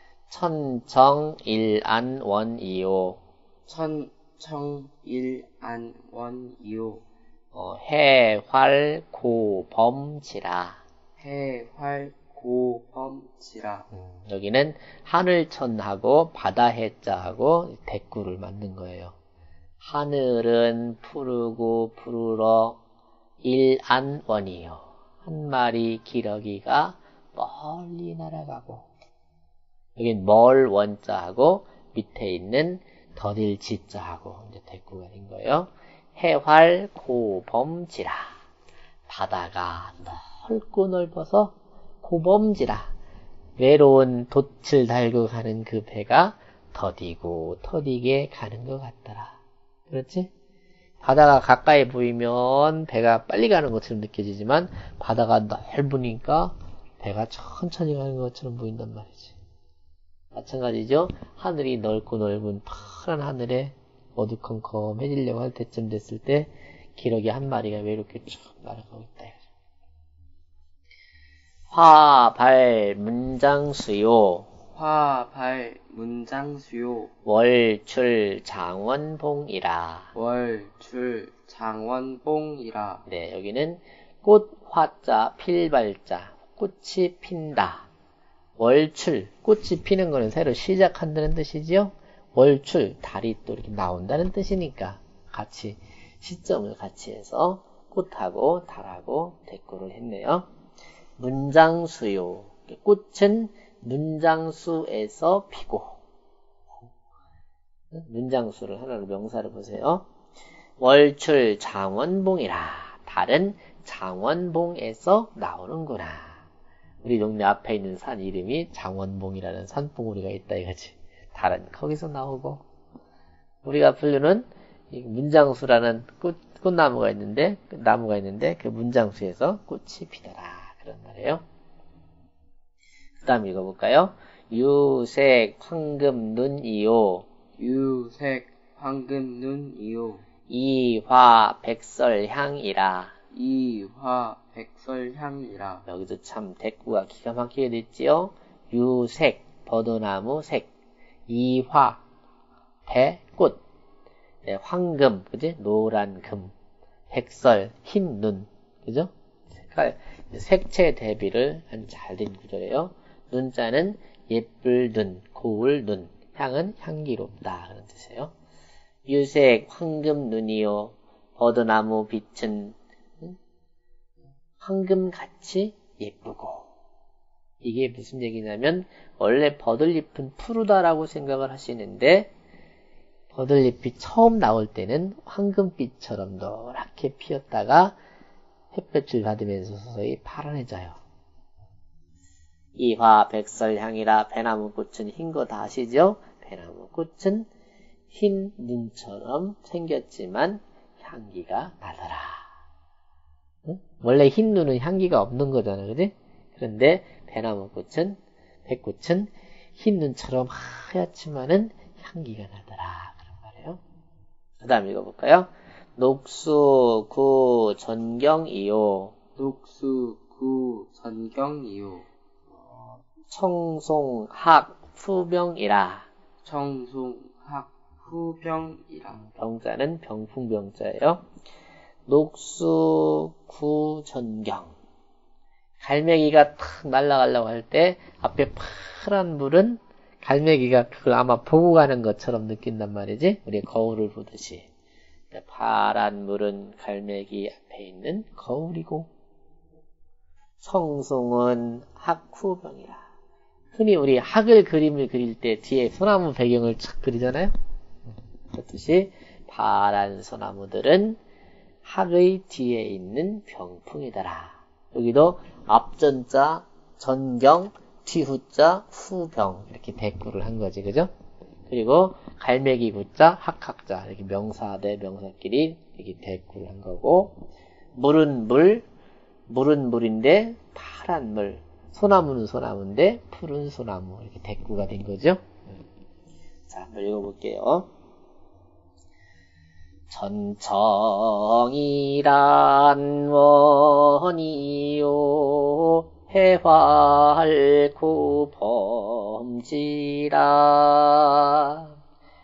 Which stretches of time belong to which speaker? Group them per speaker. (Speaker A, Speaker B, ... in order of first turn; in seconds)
Speaker A: 0.3-3.2, 7.5-10.8, 13.9-19.1, 19.8-22.8, 23.4-28.9, 29.9-38.4, 39.1-42.9, 43.6-49.4, 49.9-50.3, 51.0-59.4, 60.3-69.4, 71.7-74.5, 77.2-80.1, 83.1-87.9, 88.6-100.5, 101.2-106.0, 107.9-110.1, 110.8-116.4, 117.0-122.6, 123.6-131.4, 133.2-137.3, 140.5-143.2, 145.9-150.7, 151.3-152.0, 152.8-153.6, 154.4-156.5, 157.1-168.3, 169.1-173.3, 174.6-176.7, 177.6-182.3, 183.3-188.0, 188.7-191.0, 192.8-197.5, 198.1-202.5, 203.6-213.8, 214.6-219.1, 223.3-226.1, 229.2-231.2, 232.1-234.7, 235.8-244.7, 245.3-249.1, 250.6-253.1, 253.7-257.5, 258.5-261.2, 261.8-271.1, 271.7-277.4, 277.9-278.8, 279.5-285.4, 286.7-287.9, 290.1-301.9
Speaker B: 3.6-7.0, 11.2-13.9, 74.7-77.1, 80.1-83.0, 137.6-140.2, 143.3-145.8, 219.3-222.1, 226.4-229.2